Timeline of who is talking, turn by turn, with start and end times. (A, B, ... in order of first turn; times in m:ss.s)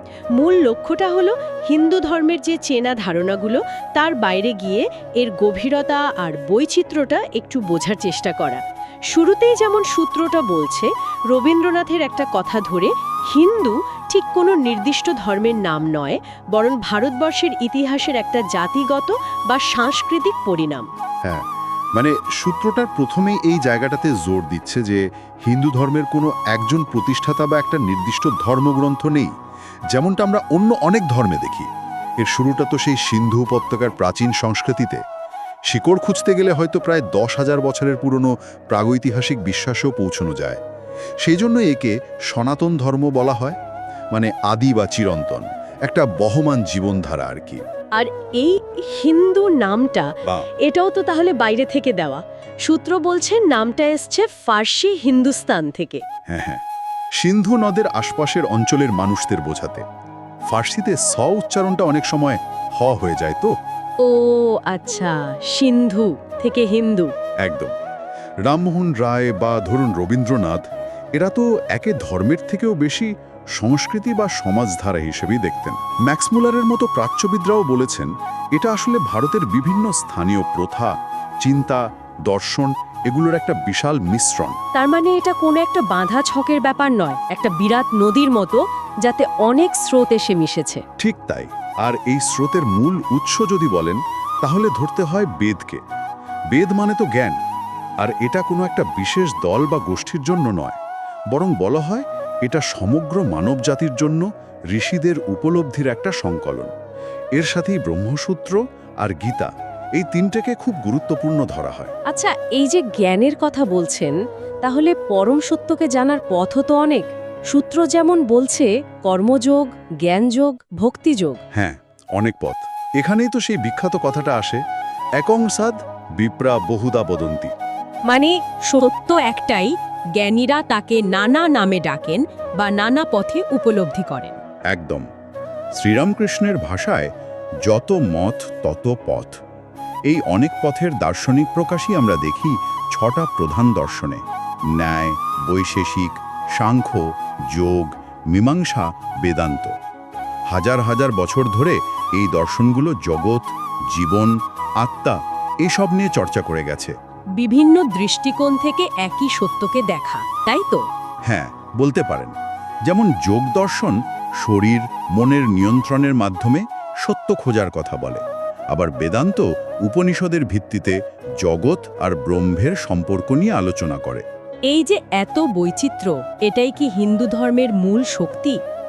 0:00.4-0:08.6 A
0:09.1-0:20.9 A
0:21.3-0:29.3 B
0:29.9-0:31.7 B
0:32.2-0:35.0 B
0:35.7-0:40.6 B
0:41.2-0:43.6 B
0:44.1-0:47.6 B
0:48.0-0:50.1 A
0:50.6-0:56.0 A
0:56.3-0:56.6 B
0:57.2-0:59.8 B
1:00.5-1:03.5 B
1:04.0-1:07.1 A
1:07.4-1:07.7 B
1:08.4-1:10.6 B
1:11.2-1:20.9 B
1:21.4-1:24.6 B
1:24.8-1:30.8 A
1:31.0-1:35.8 B
1:36.5-1:37.4 B
1:38.0-1:40.8 B
1:41.3-1:46.7 B
1:47.4-1:51.9 B
1:52.1-2:01.4 A
2:01.5-2:04.6 B
2:05.2-2:07.5 B
2:08.1-2:14.4 A
2:14.7-2:15.1 B
2:15.8-2:17.1 B
2:17.6-2:19.4 B
2:20.1-2:24.2 B
2:24.7-2:29.7 B
2:30.5-2:37.0 B
2:37.4-2:40.8 A
2:41.3-2:42.4 B
2:42.9-2:54.2 B
2:54.7-2:58.6 A